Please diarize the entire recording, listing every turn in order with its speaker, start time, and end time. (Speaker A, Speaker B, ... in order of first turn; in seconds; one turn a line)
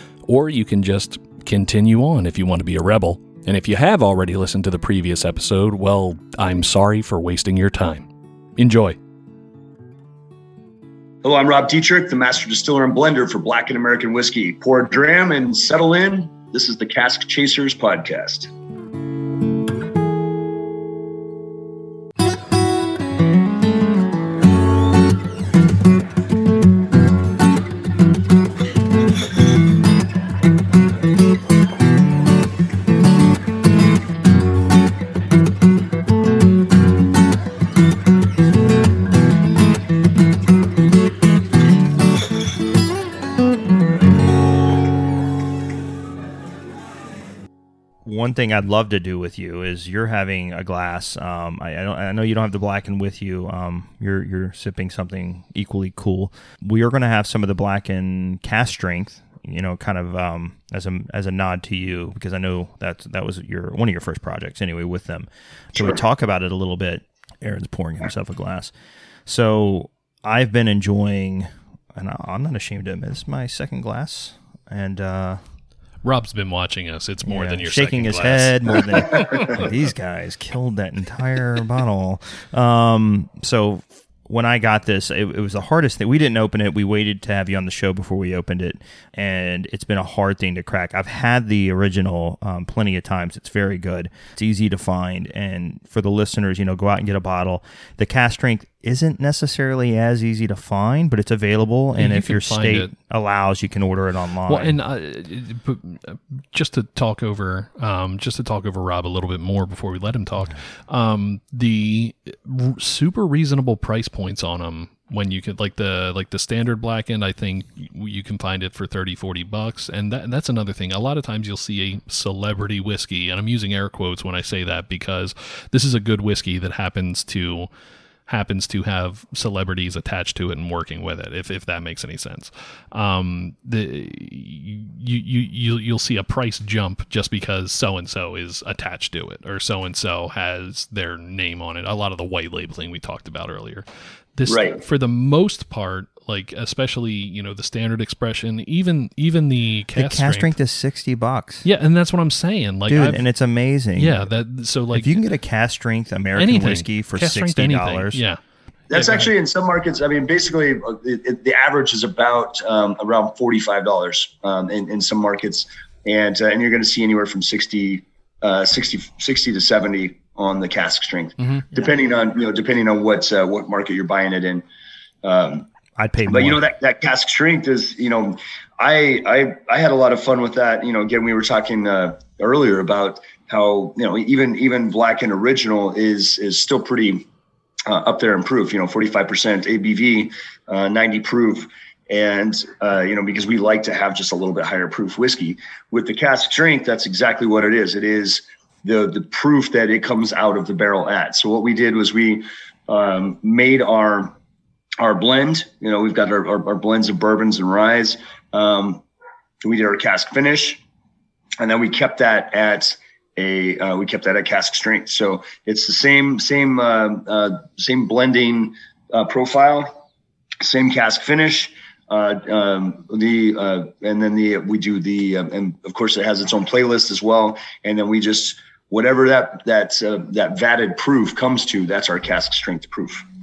Speaker A: 0.2-8.1
Speaker A: 8.6-9.0
Speaker B: 11.2-18.5
Speaker C: 48.0-68.7
Speaker C: 69.2-75.4
Speaker A: 76.0-79.6
Speaker C: 77.2-104.8
Speaker A: 102.0-102.9
Speaker A: 104.5-127.7
Speaker A: 128.3-150.5
Speaker B: 144.4-144.8
Speaker C: 149.9-151.7
Speaker A: 151.6-153.2
Speaker C: 152.9-154.3
Speaker A: 153.9-155.2
Speaker C: 154.9-158.2
Speaker A: 156.3-158.4
Speaker B: 158.9-174.6
Speaker A: 158.9-159.3
Speaker B: 175.2-175.7
Speaker C: 176.0-176.6
Speaker B: 176.2-187.2
Speaker B: 187.8-204.3
Speaker B: 205.0-209.0
Speaker B: 209.6-210.8
Speaker B: 211.6-220.0
Speaker B: 220.6-233.2